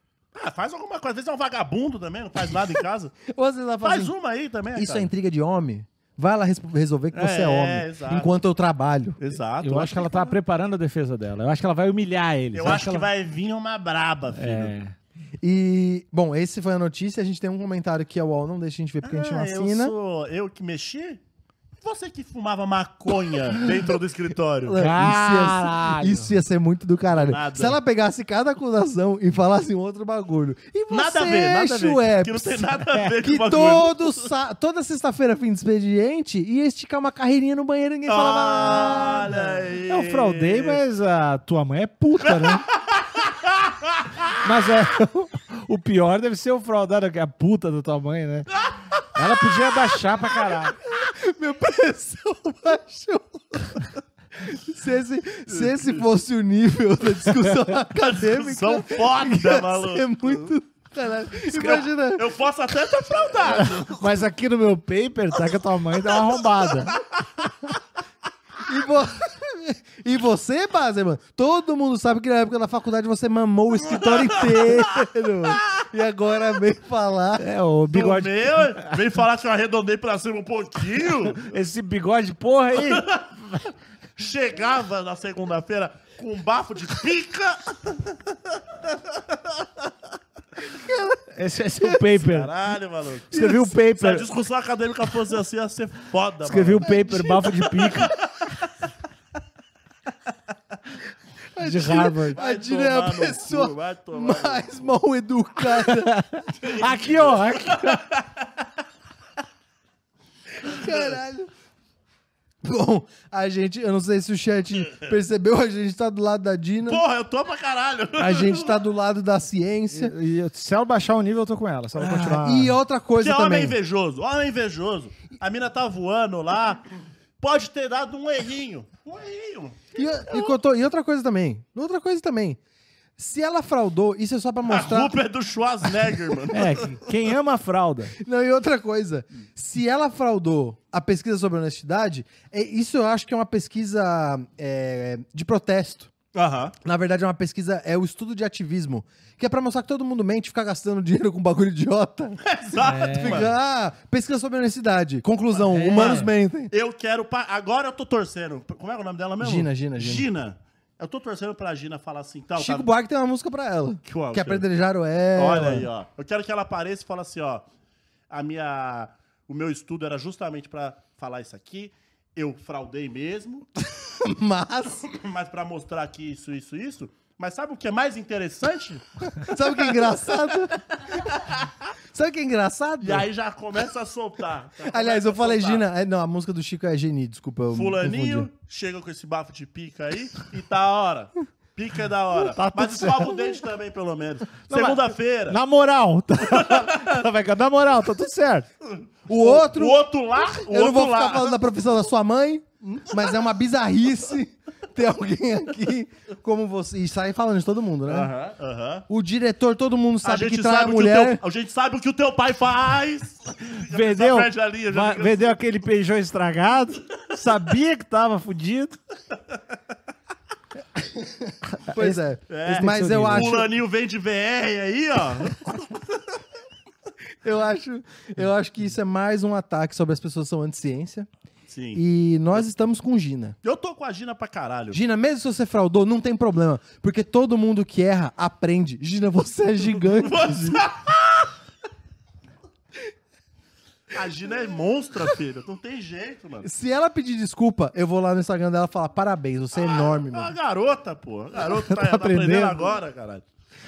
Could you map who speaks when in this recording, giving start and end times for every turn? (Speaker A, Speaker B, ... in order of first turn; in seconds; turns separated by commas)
Speaker A: 0.3-3.1, Speaker B: 3.3-4.1, Speaker A: 3.8-5.1, Speaker B: 4.7-9.2, Speaker A: 7.1-8.4, Speaker A: 9.2-10.3, Speaker C: 9.6-13.1, Speaker A: 12.5-14.7, Speaker C: 14.3-14.9, Speaker B: 15.4-19.9, Speaker A: 19.0-21.2, Speaker A: 21.8-24.8, Speaker B: 24.6-39.5, Speaker C: 24.7-26.3, Speaker A: 27.1-27.8, Speaker A: 30.9-34.3, Speaker A: 38.0-40.8, Speaker C: 39.8-42.6, Speaker A: 42.2-44.3, Speaker C: 44.4-48.5, Speaker C: 49.1-50.8, Speaker B: 50.8-53.8, Speaker B: 54.4-62.3, Speaker A: 55.5-56.0, Speaker A: 57.9-60.5, Speaker A: 61.5-64.2, Speaker C: 63.4-67.0, Speaker B: 68.7-77.5, Speaker A: 73.9-75.6, Speaker C: 77.4-78.9, Speaker A: 77.9-81.5, Speaker C: 81.3-83.6, Speaker A: 82.7-83.3, Speaker A: 84.2-88.3, Speaker A: 88.9-89.3, Speaker B: 90.8-91.2, Speaker C: 91.3-92.5, Speaker B: 91.8-92.0, Speaker A: 92.1-97.0, Speaker C: 93.3-94.3, Speaker B: 93.3-93.7, Speaker C: 96.4-98.1, Speaker B: 96.8-97.5, Speaker A: 97.8-98.5, Speaker B: 101.5-106.2, Speaker C: 101.6-102.4, Speaker A: 102.3-104.9, Speaker C: 105.8-108.0, Speaker A: 106.6-108.5, Speaker B: 110.6-111.5, Speaker A: 110.8-111.2, Speaker B: 112.6-117.0, Speaker A: 116.8-118.8, Speaker B: 118.2-120.2, Speaker C: 119.9-122.8, Speaker B: 122.0-123.8, Speaker A: 123.2-126.8, Speaker A: 127.4-130.6, Speaker B: 129.9-132.6, Speaker B: 133.2-135.2, Speaker A: 134.6-136.9, Speaker C: 136.5-138.1, Speaker B: 138.2-146.1, Speaker A: 146.3-146.7, Speaker B: 146.8-152.4, Speaker A: 152.4-153.5, Speaker C: 152.8-153.5, Speaker B: 153.0-156.7, Speaker C: 155.6-156.3, Speaker A: 156.1-162.9, Speaker B: 159.4-160.3, Speaker B: 162.6-165.9, Speaker A: 164.0-164.7, Speaker A: 165.3-167.6, Speaker A: 168.3-173.6, Speaker B: 174.2-175.1, Speaker A: 175.1-180.6, Speaker B: 179.4-180.8, Speaker B: 182.1-183.3, Speaker A: 183.0-185.8, Speaker B: 184.9-188.5, Speaker A: 187.7-195.6, Speaker C: 192.5-193.3, Speaker C: 194.7-198.7, Speaker A: 196.4-197.2, Speaker A: 199.0-201.6, Speaker B: 199.3-208.3, Speaker A: 202.8-203.3, Speaker A: 208.1-209.0, Speaker B: 209.1-211.4, Speaker A: 210.2-215.6, Speaker C: 213.9-219.0, Speaker C: 221.8-223.6, Speaker B: 221.9-223.7, Speaker A: 222.5-226.0, Speaker B: 227.4-231.3, Speaker A: 231.7-232.0, Speaker B: 231.9-233.6, Speaker A: 233.6-235.0, Speaker B: 234.9-240.8, Speaker A: 240.1-241.5, Speaker A: 244.1-246.7, Speaker B: 246.6-250.5, Speaker A: 249.8-253.4, Speaker C: 251.7-252.9